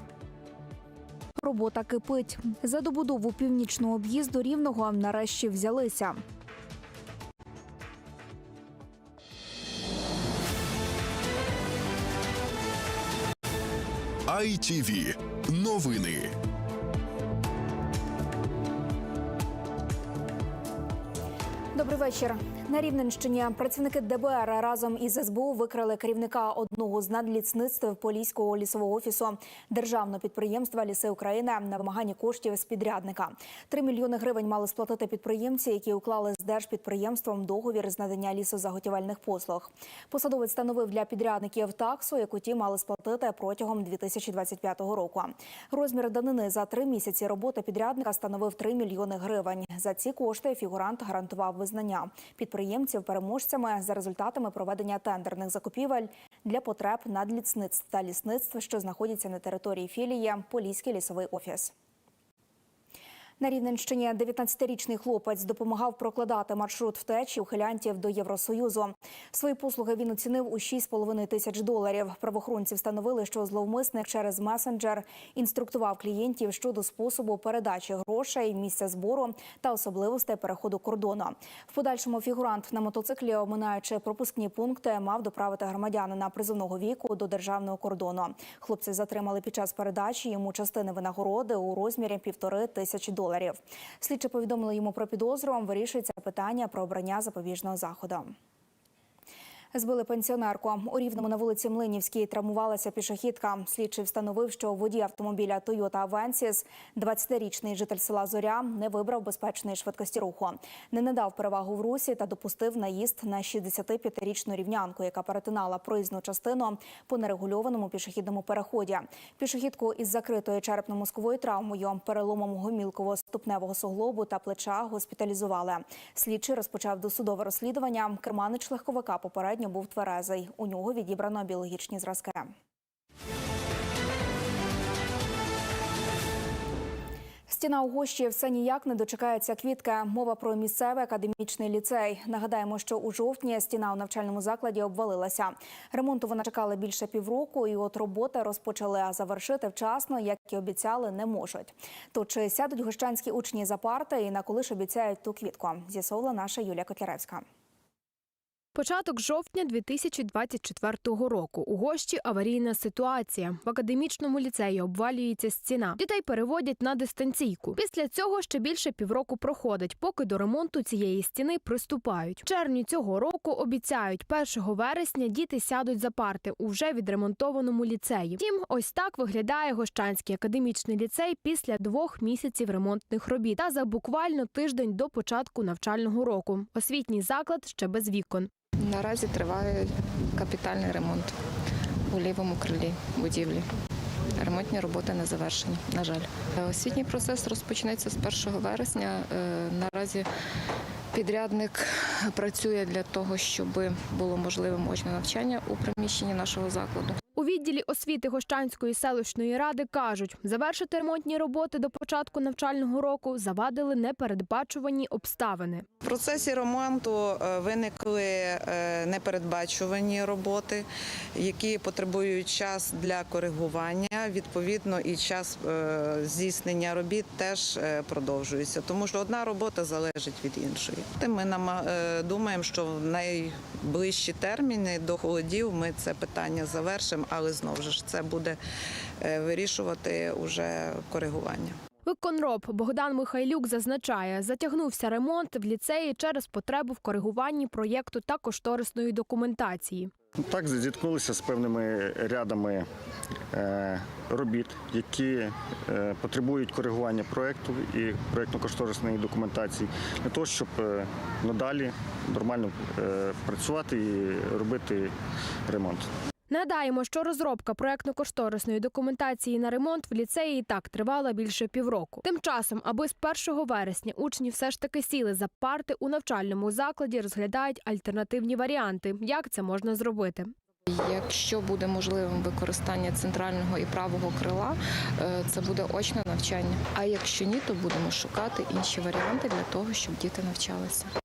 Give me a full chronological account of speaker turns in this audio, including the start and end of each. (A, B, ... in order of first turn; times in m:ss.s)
0:01.4-0:06.2 A
0:14.3-0:16.3 B
0:21.8-1:01.7 A
1:03.4-1:38.3 A
1:39.7-2:12.5 A
2:17.5-2:37.4 A
2:38.8-3:08.5 C
3:08.8-3:11.3 D
3:12.1-3:13.7 D
3:14.4-3:20.3 D
3:21.1-3:27.2 D
3:27.4-3:35.9 C
3:36.0-3:58.6 E
3:59.2-4:01.8 E
4:02.1-4:10.1 C
4:10.4-4:12.9 F
4:13.5-4:25.1 F
4:25.7-4:26.1 F
4:26.5-4:40.5 C
4:40.9-4:51.1 D